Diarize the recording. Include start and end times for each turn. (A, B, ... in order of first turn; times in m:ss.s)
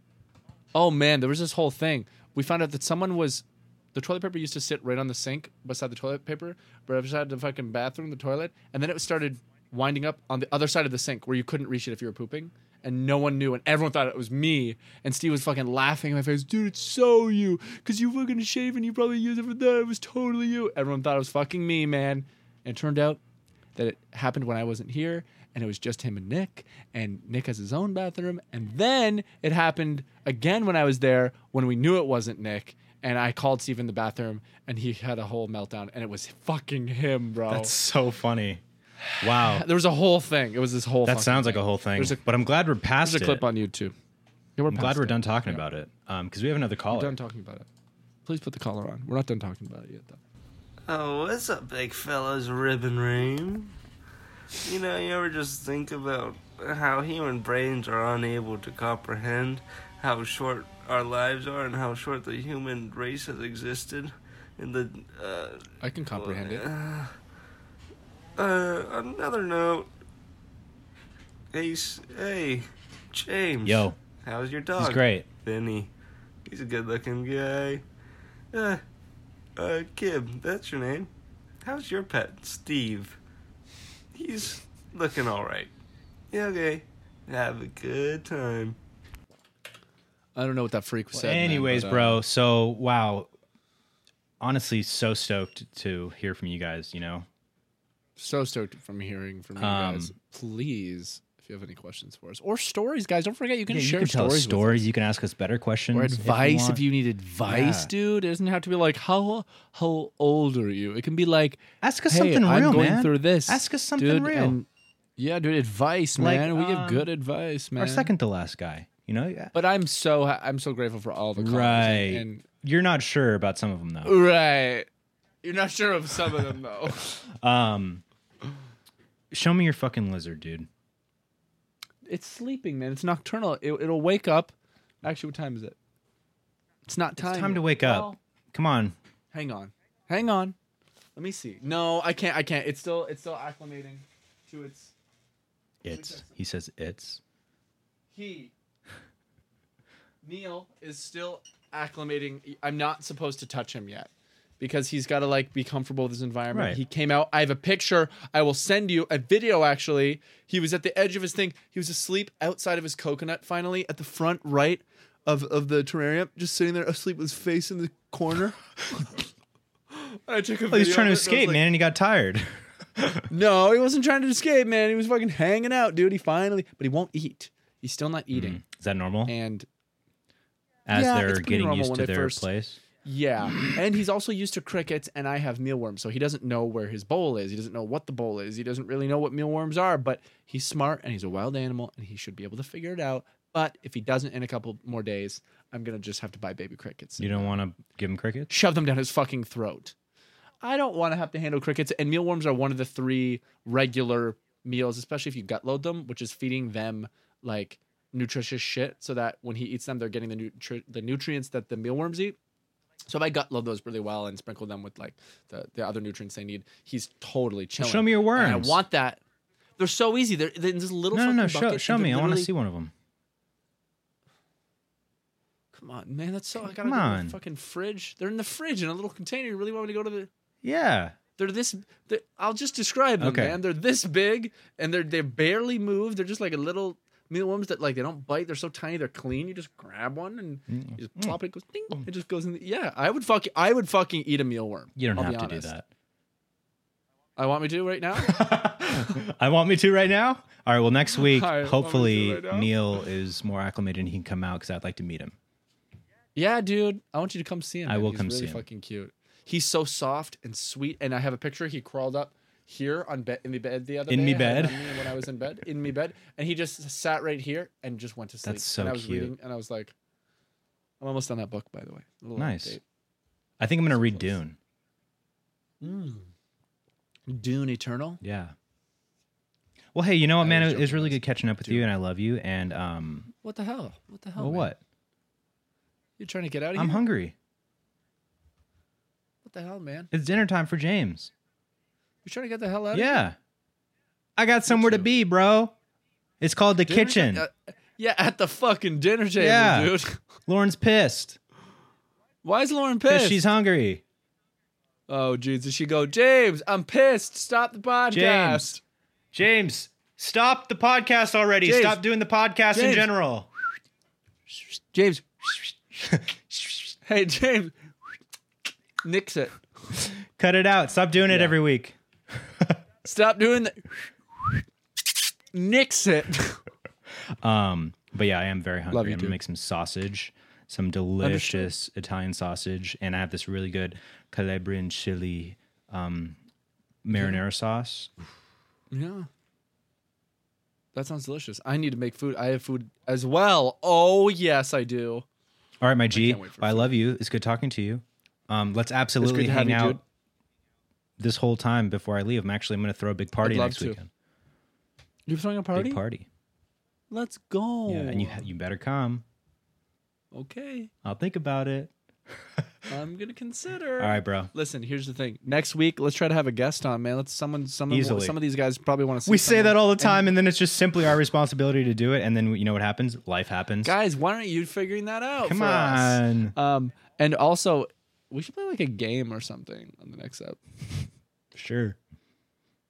0:00.7-0:23.2 A
0:23.8-0:37.7 A
0:37.5-0:38.6 B
0:39.0-0:42.2 A
0:39.2-0:39.6 B
0:41.0-0:43.4 B
0:43.0-0:43.9 A
0:44.6-0:45.6 A
0:44.7-0:47.1 B
0:46.9-0:47.7 A
0:48.2-0:50.2 A
0:50.9-0:53.7 C
0:54.6-1:05.6 C
1:05.8-1:06.7 A
1:06.2-1:07.1 C
1:08.4-1:09.9 C
1:11.5-1:15.9 C
1:13.6-1:14.0 B
1:14.8-1:15.3 B
1:16.4-1:17.8 C
1:18.5-1:18.8 C
1:19.6-1:21.1 C
1:21.6-1:23.2 C
1:24.1-1:25.7 C
1:26.3-1:28.8 C
1:30.4-1:32.2 A
1:31.1-1:33.3 B
1:34.4-1:37.3 B
1:38.2-1:44.8 A
1:39.6-1:40.1 B
1:43.7-1:46.8 B
1:45.9-1:58.1 A
1:47.5-1:47.9 B
1:51.8-1:54.6 B
1:56.2-1:57.1 B
1:57.8-1:59.5 B
1:59.5-2:02.4 A
2:01.4-2:04.1 B
2:04.0-2:04.9 A
2:05.4-2:07.2 A
2:07.4-2:08.0 B
2:09.3-2:10.7 B
2:12.0-2:15.8 A
2:16.8-2:18.2 A
2:17.2-2:19.0 B
2:19.3-2:20.6 A
2:21.2-2:24.9 A
2:25.8-2:27.2 B
2:25.9-2:26.2 A
2:28.1-2:28.5 A
2:30.2-2:49.1 A
2:36.5-2:36.8 B
2:49.9-2:51.6 A
2:50.7-2:52.5 B
2:53.3-2:58.6 A
2:58.3-2:59.3 B
2:59.3-2:59.7 A
3:00.9-3:02.8 B
3:00.9-3:02.5 A
3:03.0-3:17.6 A
3:17.2-3:18.5 B
3:18.5-3:19.9 A
3:20.6-3:32.4 A
3:33.1-3:39.2 A
3:37.8-3:38.8 B
3:39.8-3:42.5 A
3:41.1-3:42.9 B
3:45.7-3:50.3 A
3:46.8-3:47.4 B
3:50.6-3:51.2 B
3:51.4-4:05.7 A
3:53.2-3:53.6 B
4:00.7-4:01.4 B
4:05.0-4:05.9 B
4:07.4-4:08.4 A
4:08.2-4:15.4 B
4:11.2-4:12.7 A
4:16.3-4:29.9 A
4:17.9-4:18.6 B
4:24.1-4:25.0 B
4:28.4-4:29.3 B
4:31.0-4:32.8 A
4:32.4-4:32.8 B
4:33.6-4:34.6 B
4:34.0-4:34.3 A
4:35.8-4:36.3 A
4:37.3-4:38.2 A
4:38.2-4:38.5 B
4:39.9-4:43.3 B
4:40.4-4:41.9 A
4:43.4-4:44.7 A
4:44.4-4:44.8 B
4:46.2-4:47.0 A
4:46.7-4:47.3 B
4:49.4-4:50.1 A
4:50.1-4:51.3 B
4:52.2-4:53.2 A
4:52.9-4:53.4 B
4:54.4-4:55.7 B
4:54.7-4:55.1 A
4:56.4-4:57.4 B
4:56.8-5:00.2 A
4:59.4-5:01.4 B
5:02.4-5:03.4 A
5:03.1-5:04.0 B
5:05.1-5:08.8 A
5:08.1-5:08.7 B
5:09.3-5:13.5 B
5:11.6-5:12.0 A
5:12.7-5:13.1 A
5:14.9-5:15.2 A
5:16.0-5:16.9 B
5:17.0-5:17.8 A
5:19.0-5:19.6 A
5:20.4-5:22.8 B
5:21.3-5:21.6 A
5:23.0-5:23.8 A
5:25.5-5:26.6 A
5:27.4-5:36.4 B
5:28.9-5:29.4 A
5:31.2-5:31.7 A
5:37.0-5:38.1 B
5:37.1-5:37.4 A
5:38.9-5:39.3 A
5:40.9-5:45.2 A
5:45.8-5:50.0 B
5:46.1-5:46.9 A
5:49.2-5:50.0 A
5:51.2-5:54.1 B
5:53.4-5:54.0 A
5:55.3-5:56.0 A
5:55.8-5:56.3 B
5:57.1-5:58.4 A
5:57.9-5:59.2 B
6:00.3-6:00.9 A
6:01.0-6:01.9 B
6:02.9-6:10.4 A
6:04.0-6:04.5 B
6:07.9-6:08.4 B
6:09.2-6:13.9 B
6:13.8-6:20.6 A
6:15.4-6:16.5 B
6:21.5-6:22.0 B